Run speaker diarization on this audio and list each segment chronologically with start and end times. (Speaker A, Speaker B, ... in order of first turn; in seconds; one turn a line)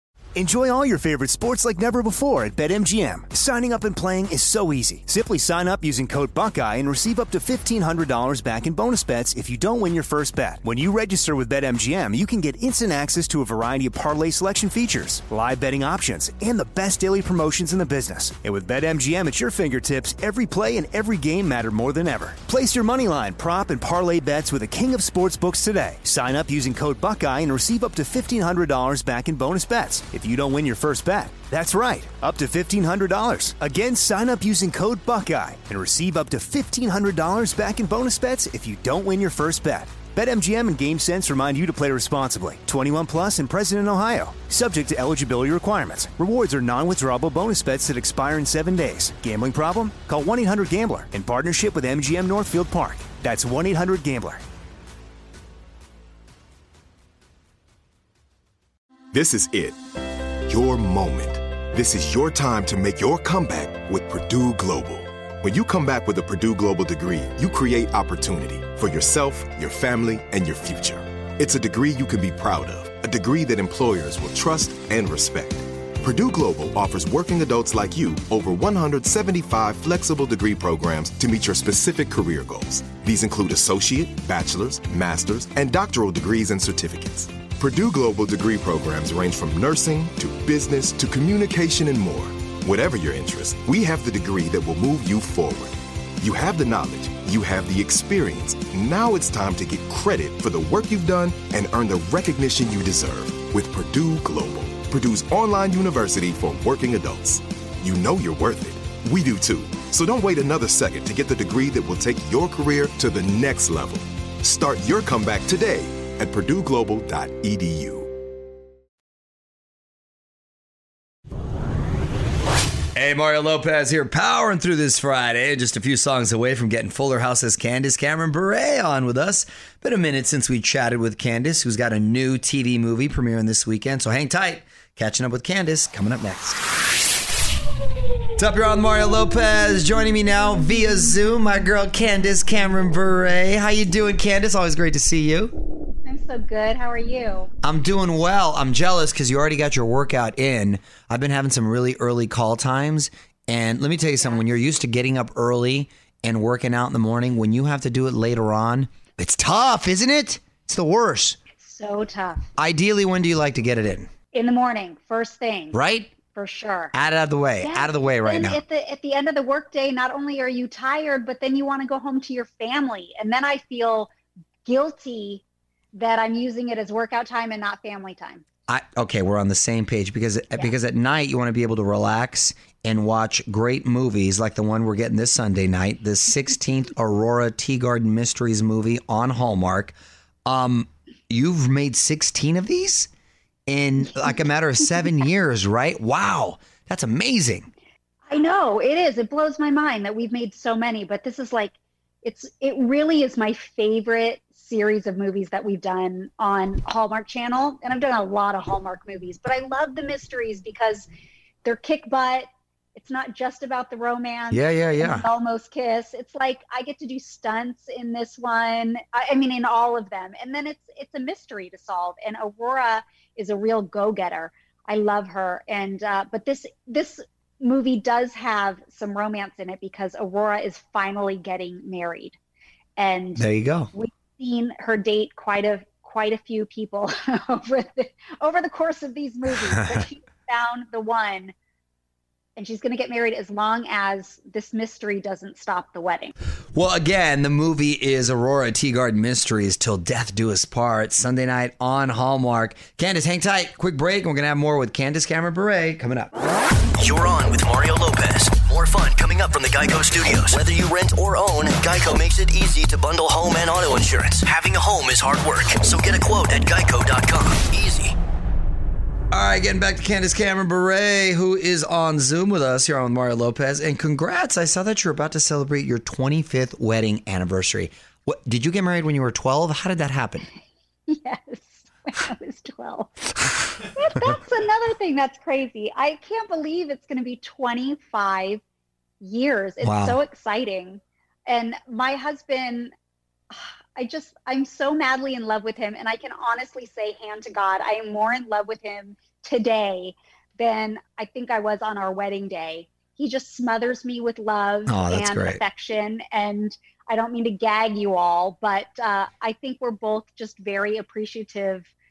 Speaker A: 0.3-54.4
Speaker B: 59.1-59.8
Speaker B: 60.5-118.1
Speaker C: 123.0-136.6
Speaker C: 138.4-145.5
Speaker D: 146.1-147.5
Speaker C: 147.6-161.4
Speaker D: 161.5-162.4
Speaker C: 162.6-164.1
Speaker D: 164.3-166.9
Speaker C: 165.7-166.2
Speaker C: 166.9-168.6
Speaker D: 167.6-174.1
Speaker D: 174.7-175.4
Speaker D: 175.9-178.4
Speaker C: 178.7-189.9
Speaker C: 190.5-193.1
Speaker C: 193.7-197.7
Speaker D: 198.3-211.1
Speaker D: 211.6-232.4
Speaker C: 214.5-215.3
Speaker D: 233.0-233.4
Speaker C: 233.4-233.9
Speaker D: 233.9-241.5
Speaker D: 242.6-246.3
Speaker C: 246.7-256.3
Speaker E: 257.0-268.1
Speaker C: 269.3-280.5
Speaker D: 281.1-283.1
Speaker D: 284.0-288.6
Speaker D: 289.2-292.9
Speaker C: 289.8-290.2
Speaker D: 293.5-311.9
Speaker C: 304.9-305.6